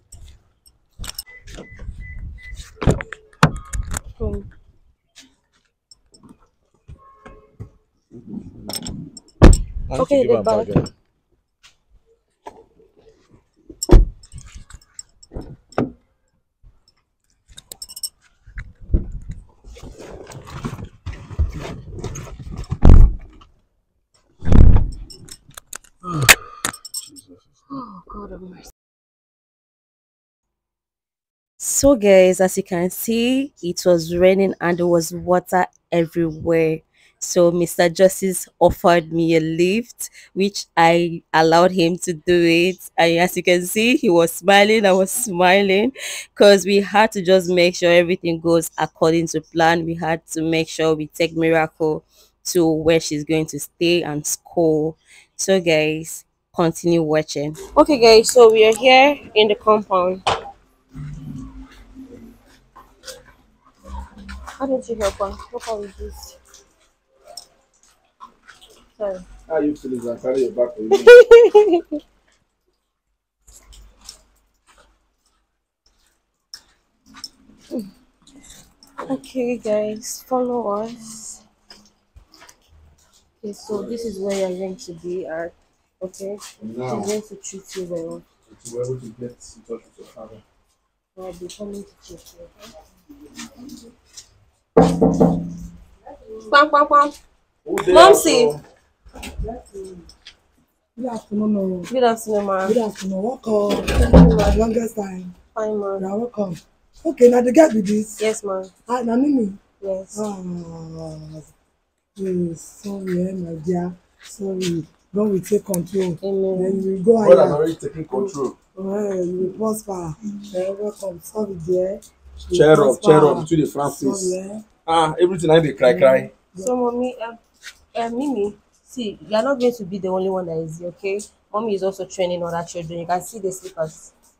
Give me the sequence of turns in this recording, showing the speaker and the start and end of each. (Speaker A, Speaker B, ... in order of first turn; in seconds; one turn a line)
Speaker A: 4.2-4.5
Speaker B: 9.9-10.9
Speaker A: 9.9-10.8
Speaker B: 27.0-27.4
Speaker A: 27.7-28.7
Speaker A: 31.6-60.2
Speaker A: 64.6-66.4
Speaker A: 69.0-69.2
Speaker B: 69.5-71.1
Speaker A: 70.9-72.0
Speaker A: 79.0-81.4
Speaker A: 83.4-88.2
Speaker B: 83.7-83.9
Speaker B: 86.6-87.1
Speaker B: 88.5-90.4
Speaker A: 91.2-92.5
Speaker A: 96.3-97.1
Speaker B: 97.6-98.6
Speaker A: 97.8-98.5
Speaker C: 99.4-100.1
Speaker C: 101.0-101.9
Speaker A: 101.9-102.8
Speaker C: 102.6-105.3
Speaker A: 103.9-104.5
Speaker A: 105.5-106.1
Speaker C: 106.0-108.2
Speaker A: 108.2-108.7
Speaker C: 108.9-109.6
Speaker A: 109.8-110.2
Speaker C: 110.1-111.5
Speaker C: 112.2-124.6
Speaker A: 116.2-116.8
Speaker B: 117.2-118.5
Speaker B: 122.5-126.3
Speaker C: 125.8-126.7
Speaker A: 126.6-127.4
Speaker A: 127.9-134.1